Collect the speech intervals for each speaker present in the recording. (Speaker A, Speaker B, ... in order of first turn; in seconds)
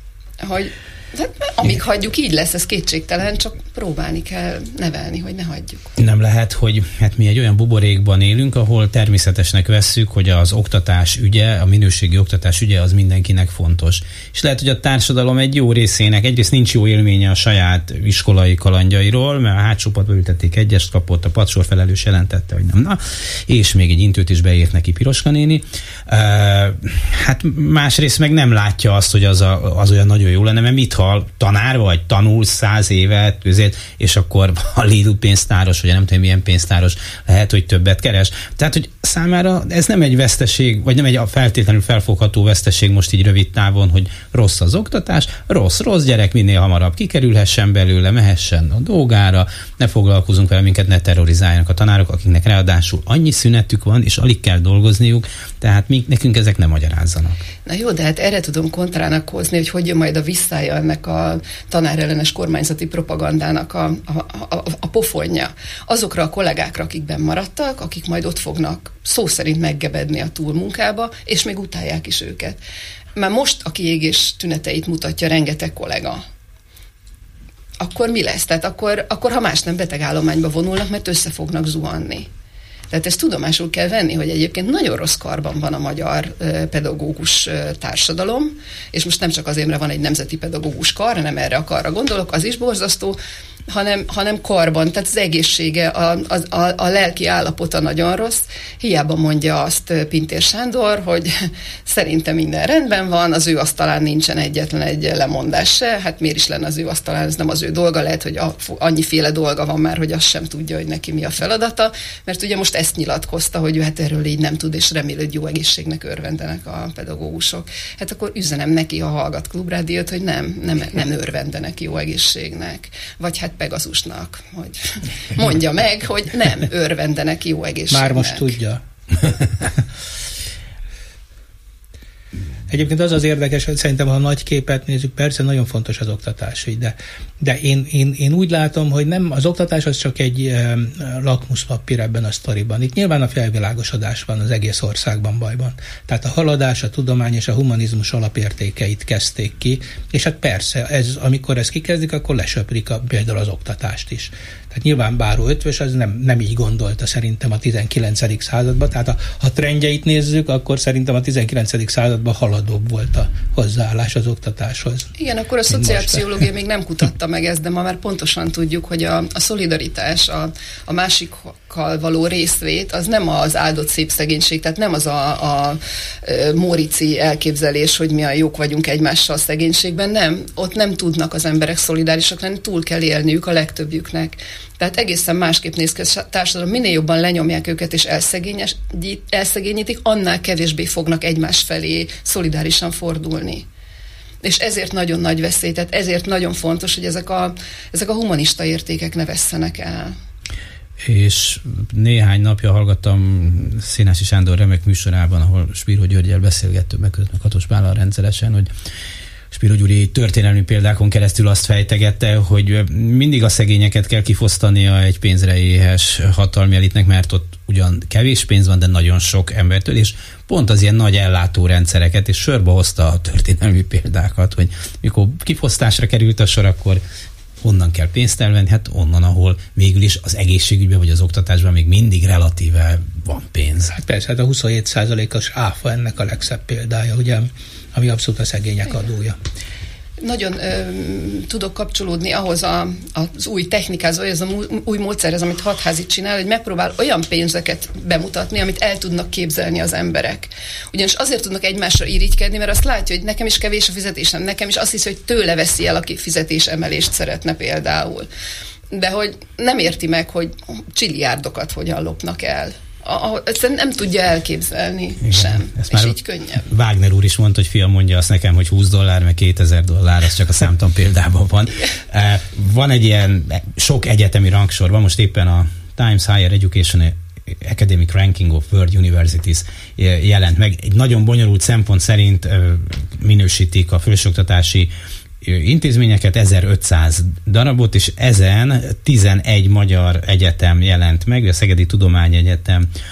Speaker A: 0.4-5.9, 57.7-72.6, 73.2-76.2, 77.8-82.3, 82.9-93.2, 93.7-128.5, 165.2-193.7, 194.4-200.1, 240.2-258.3, 258.9-266.6
Speaker B: 6.0-57.4, 201.0-208.7, 209.5-227.0, 227.6-233.9, 265.3-292.9
Speaker C: 127.9-128.8, 132.7-165.1, 165.7-166.2, 233.9-239.4